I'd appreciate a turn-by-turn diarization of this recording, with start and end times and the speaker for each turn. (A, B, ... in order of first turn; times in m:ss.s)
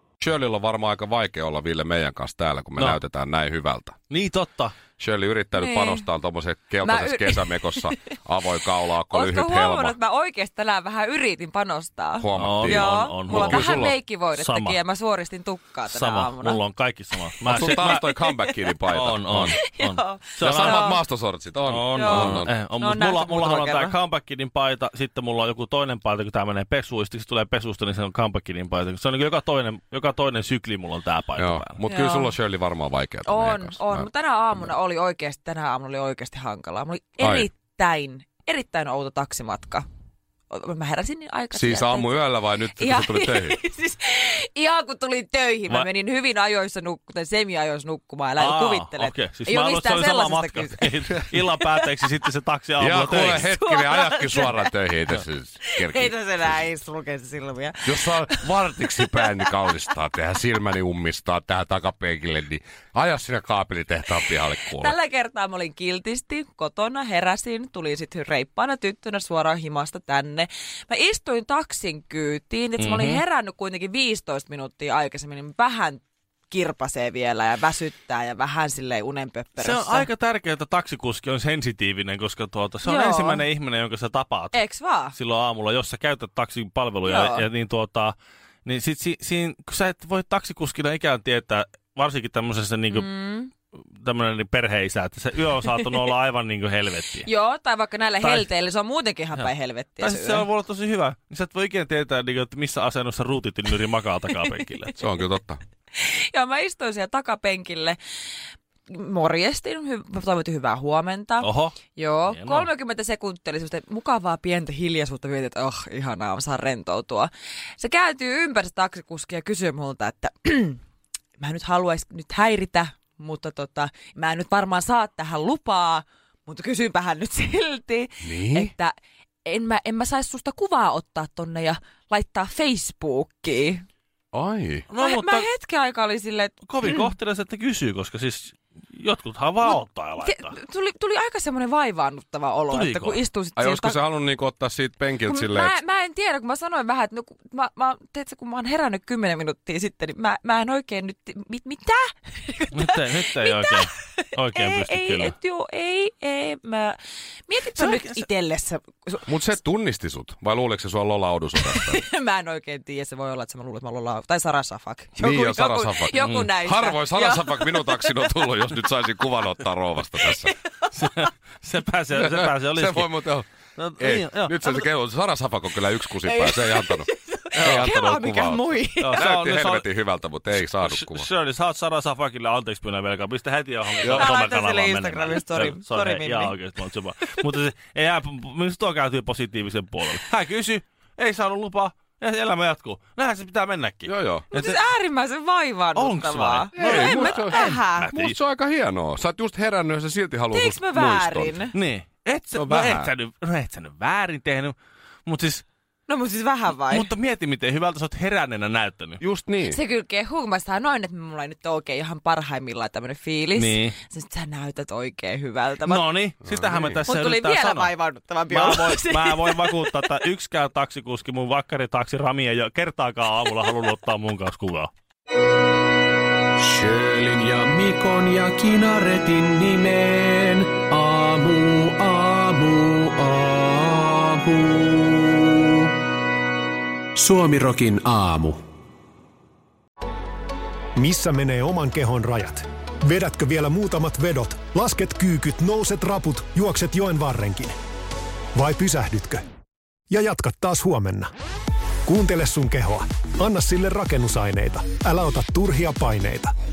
0:00.2-0:04.0 A
0:04.1-0:04.7 B
0:05.0-0:10.0 A
0:05.6-0:06.0 C
0:06.8-0:08.1 C
0:09.1-0:16.6 C
0:12.2-0:13.9 A
0:12.3-0:14.8 B
0:15.9-0:18.0 B
0:17.4-0:19.6 A
0:17.6-0:18.7 C
0:18.9-0:20.9 B
0:19.6-0:21.0 C
0:20.3-0:22.5 A
0:21.6-0:31.8 B
0:21.9-0:23.9 C
0:31.4-0:34.1 A
0:31.8-0:32.3 C
0:33.2-0:39.8 C
0:37.2-0:37.5 A
0:40.5-0:51.9 C
0:41.5-0:43.6 A
0:48.4-0:53.5 B
0:52.8-0:56.6 A
0:53.4-0:54.7 C
0:55.7-0:58.5 C
0:57.8-1:04.9 A
1:04.6-1:20.1 C
1:12.8-1:13.2 B
1:19.6-1:24.6 B
1:22.8-1:23.4 C
1:24.5-1:25.1 C
1:25.1-1:33.1 B
1:27.0-1:27.4 C
1:32.9-1:33.5 C
1:33.9-1:37.3 B
1:37.2-1:40.4 C
1:38.2-1:38.5 B
1:39.3-1:44.9 B
1:45.0-1:45.6 A
1:45.9-1:48.0 C
1:48.9-2:00.8 C
1:51.4-1:52.7 B
2:01.4-2:13.8 C
2:08.2-2:08.7 A
2:14.3-2:14.9 A
2:14.9-2:15.5 B
2:15.0-2:17.1 C
2:16.6-2:20.6 B
2:19.6-2:24.0 C
2:22.7-2:23.2 B
2:23.6-2:25.8 A
2:25.2-2:39.3 C
2:32.7-2:35.3 B
2:37.7-2:38.2 B
2:39.2-2:42.0 A
2:41.6-2:48.5 C
2:45.2-2:50.5 A
2:46.2-2:46.5 B
2:50.2-2:51.0 C
2:50.9-2:54.8 B
2:52.2-3:01.3 A
2:56.2-2:59.2 C
2:57.5-2:57.9 B
2:59.0-2:59.9 B
3:00.8-3:14.8 B
3:04.0-3:04.3 A
3:04.2-3:06.6 C
3:14.0-3:14.5 A
3:14.5-3:18.1 C
3:16.0-3:18.4 B
3:16.8-3:21.6 A
3:20.5-3:21.7 C
3:21.7-3:24.7 B
3:22.5-3:23.1 A
3:25.2-3:25.6 B
3:26.1-3:27.1 C
3:26.8-3:29.2 B
3:29.2-3:29.8 A
3:29.6-3:36.0 C
3:33.6-3:34.0 B
3:35.8-3:37.9 B
3:36.4-3:37.0 A
3:37.1-3:39.9 C
3:38.5-3:44.9 B
3:46.6-3:55.6 D
3:57.1-3:58.6 D
4:01.0-4:07.8 E
4:08.5-4:09.4 E
4:10.1-4:11.3 E
4:12.0-4:16.5 E